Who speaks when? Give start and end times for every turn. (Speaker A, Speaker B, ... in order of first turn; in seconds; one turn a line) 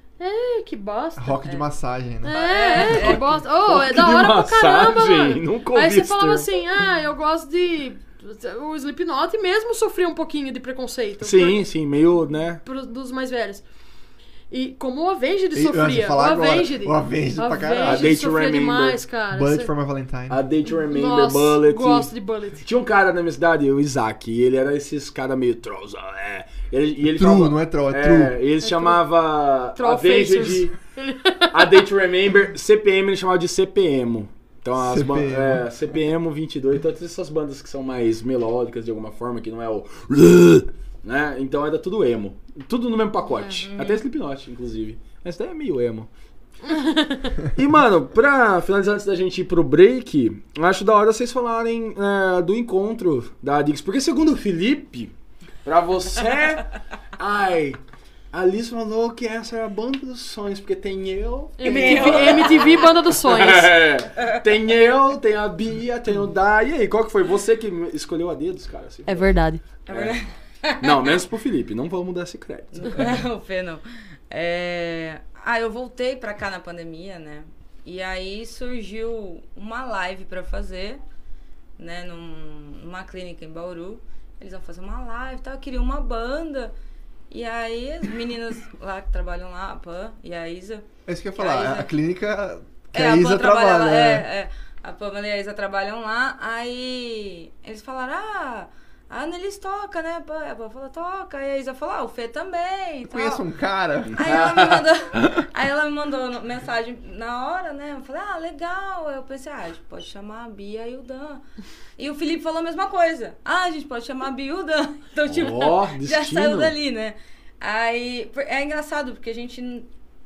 Speaker A: 0.2-1.4
Speaker B: 1.2-3.1
Speaker A: 2.2-11.7
Speaker C: 2.3-3.3
Speaker D: 2.8-6.5
Speaker D: 11.2-12.6
Speaker A: 12.6-13.6
Speaker A: 14.5-19.7
Speaker B: 15.5-18.2
Speaker D: 17.8-19.0
Speaker B: 19.3-20.4
Speaker D: 20.3-30.7
Speaker A: 20.6-22.6
Speaker B: 27.0-28.4
Speaker A: 28.6-29.1
Speaker A: 29.7-31.8
Speaker D: 31.5-46.1
Speaker B: 34.7-35.6
Speaker A: 43.3-43.6
Speaker C: 43.5-44.0
Speaker A: 46.6-47.4
Speaker D: 47.5-55.1
Speaker D: 55.6-57.8
Speaker D: 58.3-69.3
Speaker A: 61.6-63.8
Speaker C: 61.6-62.9
Speaker A: 69.0-69.6
Speaker C: 69.9-71.2
Speaker D: 69.9-70.2
Speaker D: 70.8-73.2
Speaker C: 72.7-81.0
Speaker C: 81.8-86.7
Speaker C: 87.3-90.8
Speaker B: 91.0-94.3
Speaker C: 91.4-91.9
Speaker C: 92.9-103.5
Speaker B: 103.1-104.3
Speaker D: 104.1-105.4
Speaker C: 104.1-111.4
Speaker C: 112.0-119.9
Speaker D: 115.2-116.7